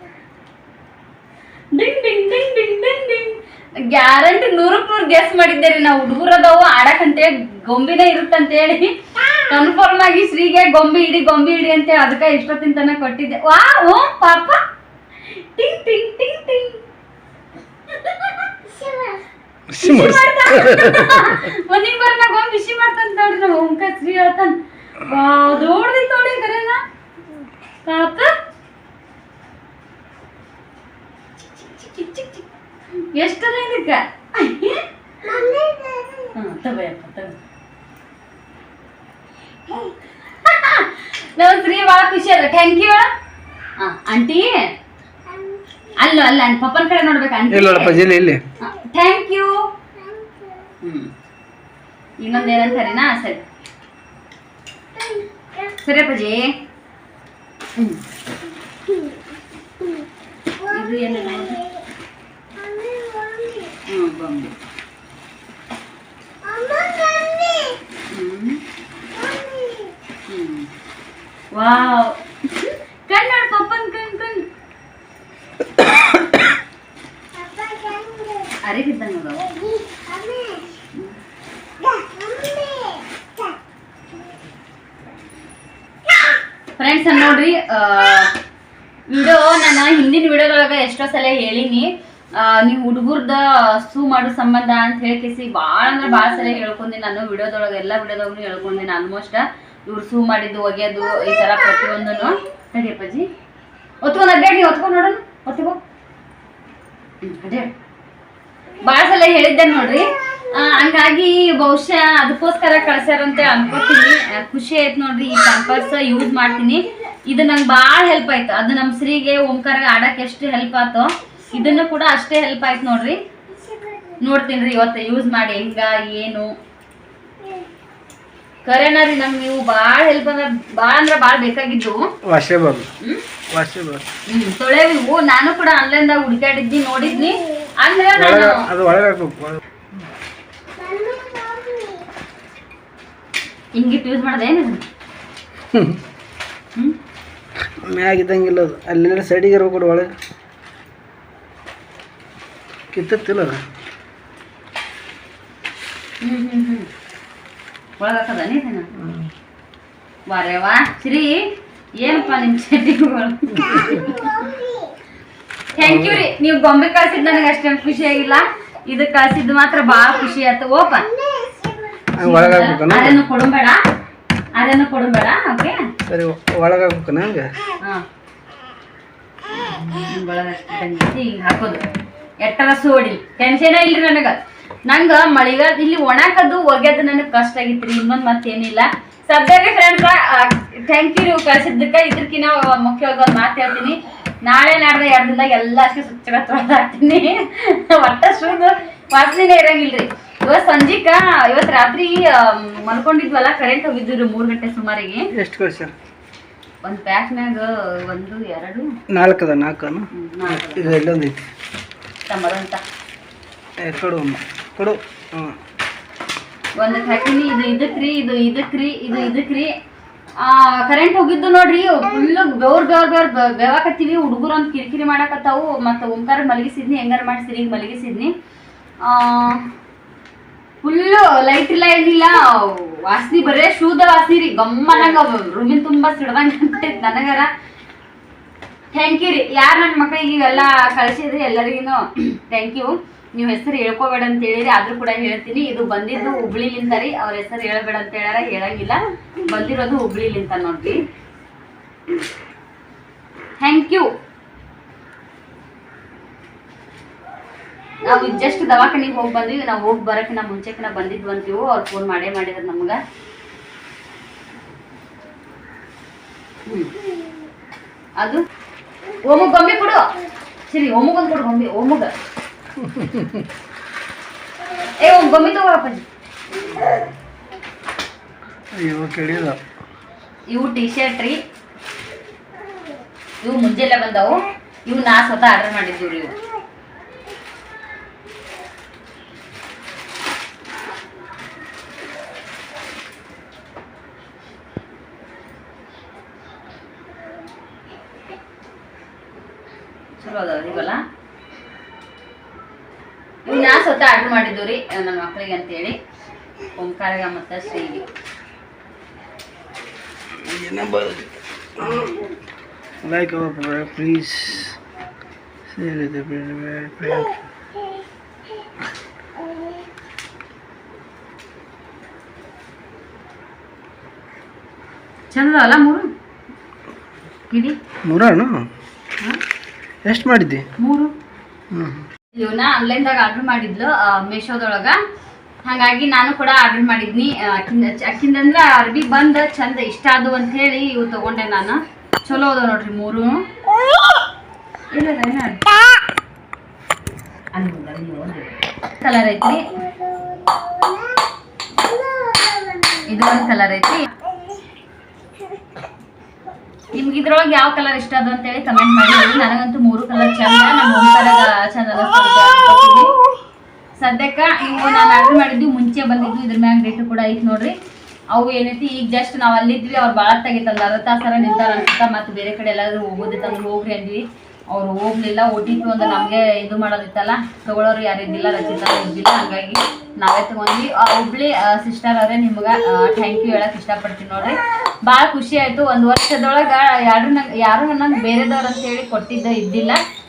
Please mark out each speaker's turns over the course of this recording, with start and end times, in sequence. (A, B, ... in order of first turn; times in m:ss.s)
0:01.7-0:14.6 A
0:15.3-0:16.8 A
0:18.0-0:19.0 A
0:19.7-0:21.4 B
0:19.8-0:26.8 A
0:27.8-0:28.3 A
0:31.6-0:32.4 A
0:33.1-0:35.7 A
0:36.3-0:37.4 A
0:39.7-0:43.1 A
0:43.8-0:44.5 A
0:46.0-0:48.0 A
0:47.5-0:48.4 B
0:48.6-0:49.6 A
0:50.8-0:51.1 A
0:52.2-0:53.4 A
0:55.6-0:56.5 A
1:00.6-1:01.6 A
1:03.8-1:04.5 A
1:08.1-1:08.6 A
1:10.3-1:10.7 A
1:11.5-1:14.4 A
1:18.4-1:19.5 A
1:26.8-1:28.3 A
1:29.1-1:43.3 A
1:44.0-1:45.8 A
1:47.2-1:47.7 A
1:48.8-2:03.2 A
2:04.2-2:06.5 A
2:08.6-2:12.0 A
2:12.2-2:12.9 B
2:13.5-2:14.0 B
2:14.3-2:18.6 A
2:18.1-2:19.6 B
2:23.7-2:24.8 A
2:25.7-2:26.0 B
2:27.8-2:30.1 B
2:32.9-2:33.6 B
2:36.2-2:36.9 A
2:38.0-2:38.9 A
2:39.0-2:39.3 B
2:40.3-2:41.4 A
2:42.0-2:44.5 A
2:45.7-2:51.1 A
2:45.8-2:46.3 B
2:52.2-2:53.2 B
2:52.2-2:53.8 A
2:54.5-2:55.8 A
2:56.1-2:57.5 B
2:59.6-3:01.8 A
3:02.4-3:25.3 A
3:25.3-3:25.9 B
3:26.8-3:28.9 A
3:29.1-3:31.5 B
3:30.1-3:31.0 A
3:32.3-3:32.8 A
3:33.8-3:35.6 B
3:36.8-3:39.7 A
3:40.4-3:48.3 A
3:49.0-3:49.6 A
3:50.8-3:57.5 A
3:58.9-4:11.0 A
4:13.6-4:14.1 A
4:18.0-4:23.0 A
4:28.2-4:28.4 A
4:29.2-4:30.0 A
4:30.7-4:32.1 A
4:32.8-4:33.4 B
4:35.0-4:36.0 A
4:38.7-4:39.6 B
4:40.5-4:41.4 A
4:43.4-4:46.3 A
5:00.2-5:01.0 A
5:03.4-5:06.0 A
5:06.8-5:08.0 A
5:10.4-5:12.2 B
5:13.0-5:14.8 B
5:15.7-5:17.3 B
5:25.3-5:26.0 A
5:27.5-5:27.8 A
5:28.0-5:28.6 B
5:30.0-5:30.6 B
5:30.8-5:31.1 A
5:31.7-5:32.0 B
5:32.3-5:35.0 A
5:35.6-5:43.4 A
5:44.9-5:45.7 A
5:47.5-5:49.6 A
5:53.0-5:54.1 A
5:56.9-6:03.1 A
6:04.0-6:07.7 A
6:08.3-6:30.0 A